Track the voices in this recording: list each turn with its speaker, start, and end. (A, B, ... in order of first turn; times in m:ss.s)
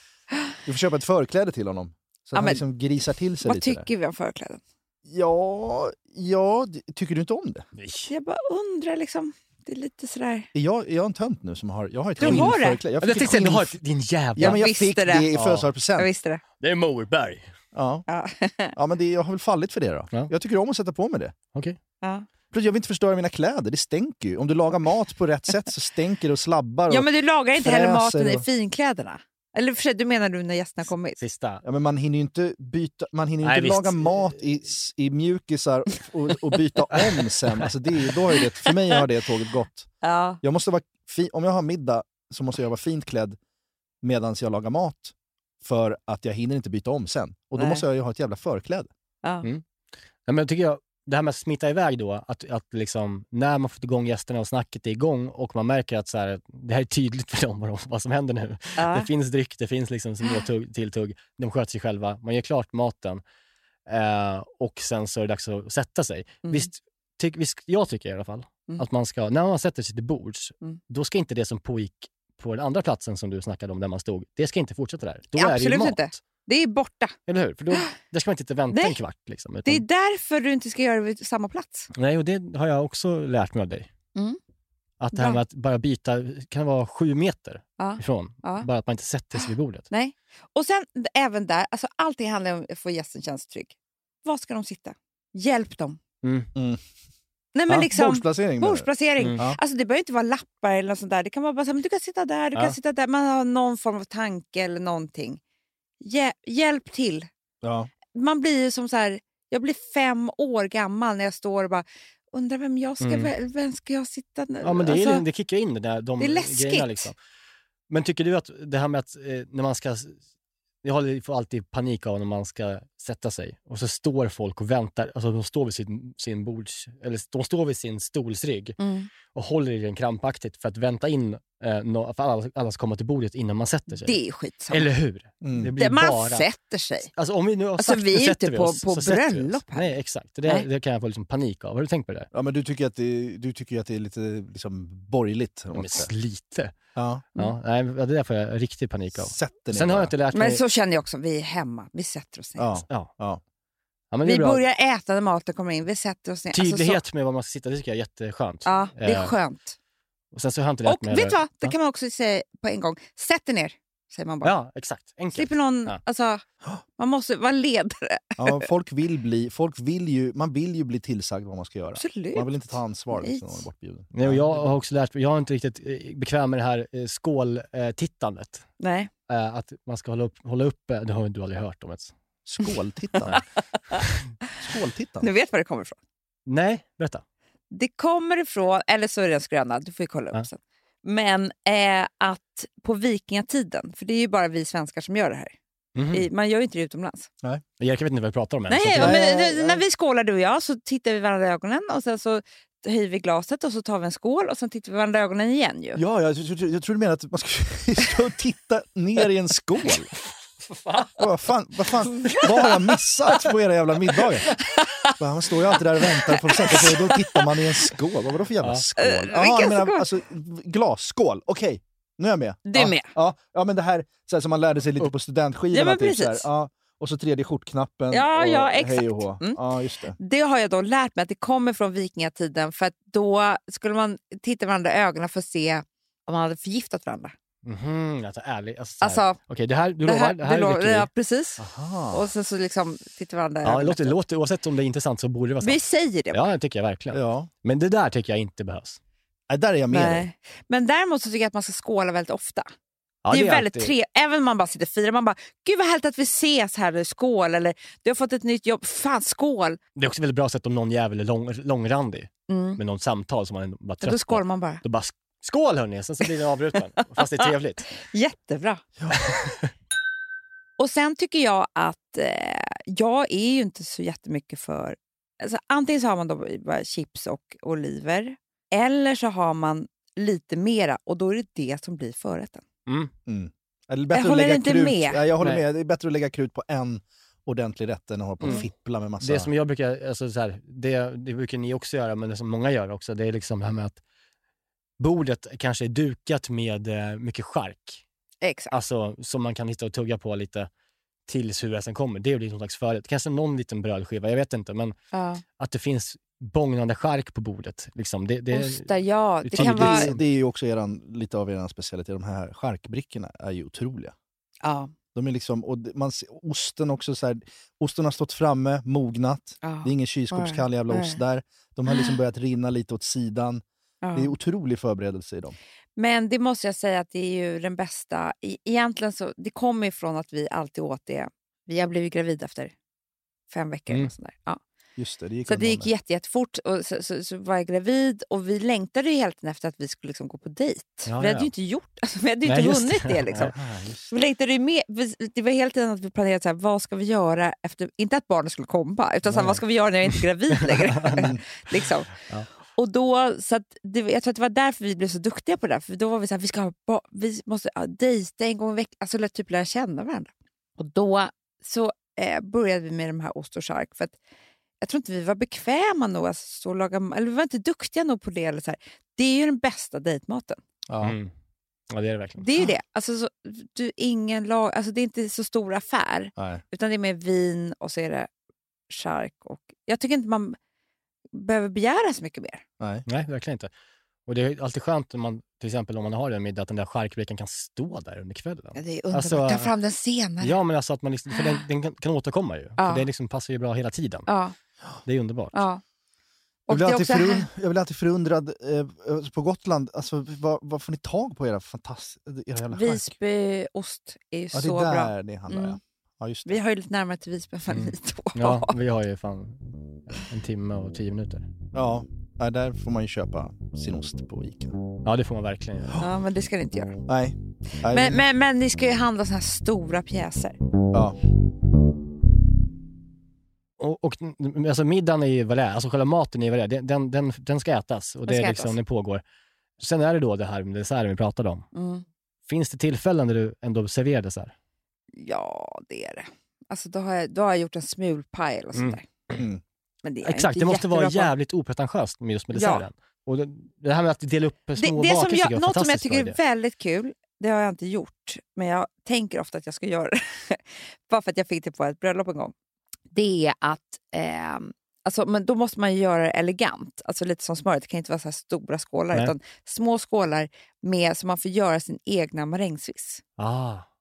0:00.6-0:03.9 A
0:02.3-0:02.6 B
0:03.4-0:04.6 B
0:05.0-0:07.6 A
0:07.8-0:08.1 C
0:08.1-0:10.5 B
0:10.5-0:13.8 A
0:12.2-0:12.8 B
0:12.2-0:12.5 C
0:13.0-0:14.6 C
0:14.3-0:16.1 A
0:14.4-0:15.3 B
0:15.3-0:15.7 C
0:16.0-0:16.4 B
0:16.6-0:17.5 C
0:17.7-0:18.0 A
0:18.1-0:18.7 B
0:18.8-0:21.3 A
0:22.0-0:22.2 B
0:22.5-0:28.4 A
0:26.9-0:31.2 B
0:31.2-0:31.6 C
0:31.6-0:39.9 A
0:33.4-0:34.3 C
0:40.0-0:40.4 B
0:40.4-0:43.4 A
0:44.0-0:48.9 A
0:47.6-0:47.8 B
0:50.2-1:03.2 C
0:58.8-0:59.1 B
1:03.9-1:16.2 C
1:15.4-1:17.1 B
1:17.3-1:19.8 C
1:18.7-1:19.0 B
1:19.6-1:21.9 B
1:21.9-1:23.9 C
1:25.0-1:29.9 C
1:25.1-1:25.4 B
1:27.8-1:28.6 B
1:29.4-1:36.0 B
1:36.2-1:36.5 C
1:36.5-1:36.8 A
1:37.5-1:45.4 B
1:37.7-1:39.6 A
1:46.0-1:47.3 B
1:47.6-1:47.9 A
1:48.1-1:55.2 B
1:53.0-1:53.3 C
1:54.6-1:57.2 C
1:56.2-1:57.1 B
1:57.9-2:00.2 C
2:00.8-2:08.8 C
2:08.8-2:09.1 B
2:09.3-2:14.2 C
2:13.9-2:14.9 B
2:14.7-2:16.5 C
2:15.4-2:15.7 A
2:15.8-2:17.1 B
2:17.2-2:22.3 C
2:17.8-2:20.7 B
2:22.3-2:26.1 A
2:25.7-2:26.7 C
2:26.9-2:27.2 A
2:27.3-2:30.6 C
2:29.2-2:30.1 A
2:30.3-2:32.7 B
2:32.6-2:33.4 A
2:34.1-2:34.6 C
2:34.2-2:37.0 B
2:36.5-2:39.3 C
2:38.6-2:39.8 B
2:40.3-2:41.7 C
2:40.8-2:44.5 B
2:44.4-2:46.0 C
2:45.3-2:46.4 B
2:47.0-2:48.6 B
2:48.4-2:54.8 A
2:52.0-2:53.6 B
2:54.1-2:58.7 C
2:58.8-2:59.1 B
2:59.3-3:02.1 C
3:02.4-3:03.4 A
3:04.6-3:05.3 A
3:05.2-3:06.0 B
3:06.4-3:07.2 C
3:07.7-3:15.5 B
3:15.9-3:16.3 C
3:16.1-3:17.3 B
3:17.8-3:19.2 C
3:18.7-3:26.0 B
3:18.9-3:19.8 A
3:26.0-3:30.1 A
3:30.8-3:31.1 C
3:31.2-3:34.6 A
3:34.7-3:35.1 B
3:35.2-3:50.2 A
3:36.1-3:37.5 B
3:39.0-3:40.1 B
3:42.6-3:43.1 B
3:45.7-3:46.5 B
3:48.1-3:49.6 B
3:50.2-3:57.3 B
3:57.6-4:01.1 C
3:59.0-3:59.4 B
4:00.0-4:04.2 B
4:01.6-4:02.2 A
4:03.6-4:05.8 C
4:05.6-4:06.4 B
4:06.3-4:09.0 C
4:07.1-4:07.5 A
4:09.5-4:10.3 A
4:09.9-4:12.7 B
4:13.2-4:13.9 C
4:13.3-4:19.8 B
4:20.0-4:27.9 C
4:22.5-4:22.8 B
4:24.0-4:24.8 B
4:27.2-4:28.8 B
4:29.1-4:29.7 C
4:30.8-4:42.6 B
4:42.9-4:43.1 C
4:43.2-4:49.5 A
4:44.1-4:45.2 B
4:49.2-4:54.0 C
4:55.0-4:58.0 C
4:58.4-4:58.7 B
4:58.7-5:00.7 C
5:01.3-5:05.0 C
5:05.1-5:05.4 B
5:05.6-5:08.9 C
5:08.5-5:10.1 B
5:09.4-5:10.2 C
5:09.6-5:14.1 A
5:14.6-5:14.9 B
5:15.1-5:23.6 A
5:19.6-5:21.2 B
5:24.0-5:24.3 B
5:24.1-5:25.6 A
5:26.0-5:32.7 B
5:33.5-5:34.6 B
5:35.0-5:35.9 A
5:35.5-5:43.5 B
5:41.1-5:41.5 C
5:42.4-5:43.5 C
5:43.4-5:44.1 A
5:44.1-5:52.1 B
5:49.3-5:49.6 C
5:51.0-5:51.2 C
5:51.1-5:51.4 A
5:52.7-6:04.2 B
6:04.8-6:10.6 B
6:10.9-6:11.2 A
6:11.0-6:11.3 C
6:11.9-6:12.4 C
6:12.4-6:18.3 B
6:16.4-6:16.6 A
6:18.9-6:20.6 B
6:21.3-6:22.6 B
6:23.0-6:23.7 C
6:24.2-6:29.7 C
6:28.7-6:30.6 B
6:30.4-6:34.3 C
6:32.8-6:33.0 B
6:34.3-6:34.5 B
6:35.0-6:35.6 C
6:35.5-6:35.8 B
6:36.7-6:37.5 B
6:36.7-6:43.1 A
6:42.7-6:45.8 B
6:44.5-6:46.5 A
6:46.4-6:48.7 B
6:47.7-6:51.5 C
6:51.7-6:54.7 A
6:55.0-6:56.0 C
6:56.0-6:57.0 B
6:57.1-6:58.2 A
6:57.9-7:00.6 B
7:03.8-7:09.2 C
7:08.3-7:08.8 B
7:09.8-7:11.6 C
7:11.7-7:12.0 B
7:12.5-7:14.5 C
7:15.1-7:19.0 B
7:18.7-7:19.4 C
7:19.3-7:19.6 A
7:20.0-7:21.3 B
7:20.2-7:26.4 C
7:22.5-7:22.8 B
7:24.8-7:32.5 B
7:33.1-7:43.2 B
7:43.4-7:43.9 C